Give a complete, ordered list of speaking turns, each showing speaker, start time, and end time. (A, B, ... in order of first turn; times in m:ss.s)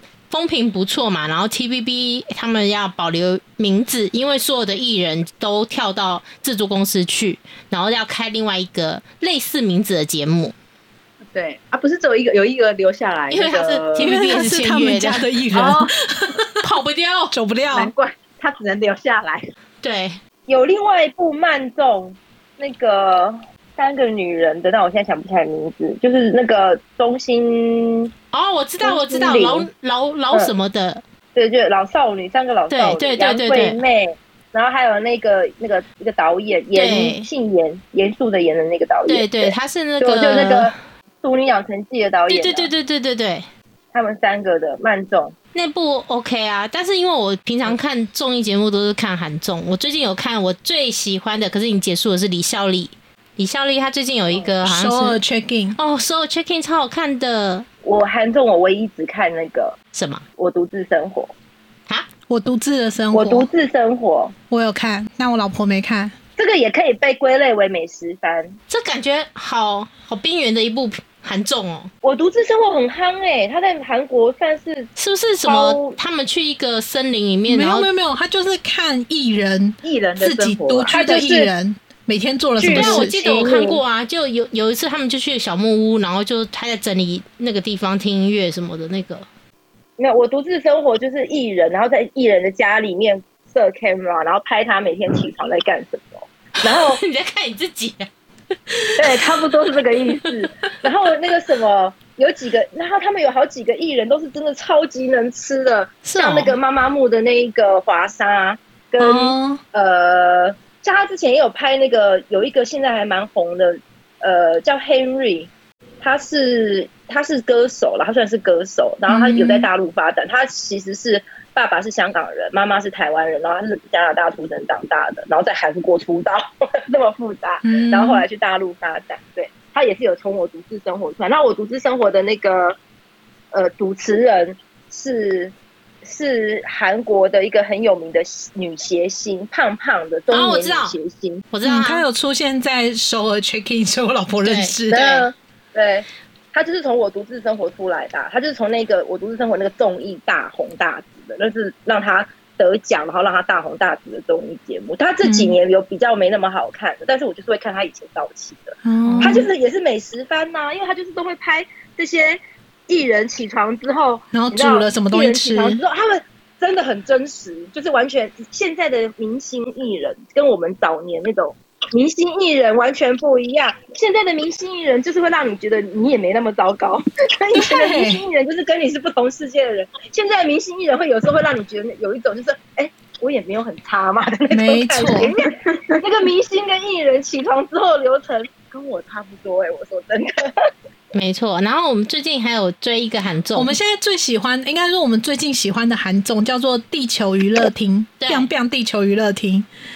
0:00.3-0:10.5 A
0:11.3-0:14.2 B
0:13.3-0:15.3 A
0:14.0-0:16.6 C
0:15.5-0:15.9 B
0:16.6-0:17.3 A
0:17.3-0:17.9 C
0:17.7-0:19.4 B
0:19.8-0:20.2 A
0:20.5-0:28.1 D
0:28.3-0:31.0 A
0:28.8-0:29.7 D
0:31.4-0:42.7 D
0:32.7-0:33.8 A
0:36.8-0:37.3 A
0:39.1-0:40.7 A
0:42.3-0:43.5 A
0:43.9-0:45.4 D
0:45.5-0:55.2 A
0:54.6-0:55.8 C
0:55.8-0:57.7 A
0:57.8-0:59.8 D
0:59.9-1:00.2 A
1:00.4-1:01.3 D
1:02.3-1:03.5 C
1:03.1-1:04.4 D
1:04.5-1:06.2 C
1:06.4-1:08.6 D
1:08.7-1:11.9 A
1:12.0-1:14.9 D
1:15.0-1:17.9 A
1:15.4-1:16.0 D
1:17.5-1:23.1 C
1:19.8-1:21.0 B
1:20.9-1:21.5 D
1:22.6-1:23.8 D
1:22.7-1:29.3 A
1:30.0-1:37.0 D
1:36.6-1:38.1 A
1:38.7-1:39.4 A
1:39.0-1:55.5 D
1:46.0-1:46.6 A
1:49.0-1:49.6 C
1:56.0-2:12.8 D
1:59.1-1:59.7 C
2:07.6-2:08.3 C
2:13.5-2:21.4 D
2:20.3-2:21.0 A
2:21.5-2:22.1 A
2:21.6-2:25.0 C
2:24.4-2:25.2 A
2:24.9-3:10.7 D
2:35.2-2:35.6 C
2:38.8-2:39.5 C
2:39.0-2:39.4 A
2:44.3-2:45.8 C
2:57.6-2:58.2 C
3:04.5-3:05.3 C
3:11.1-3:13.8 A
3:13.6-3:19.7 C
3:18.2-3:18.5 A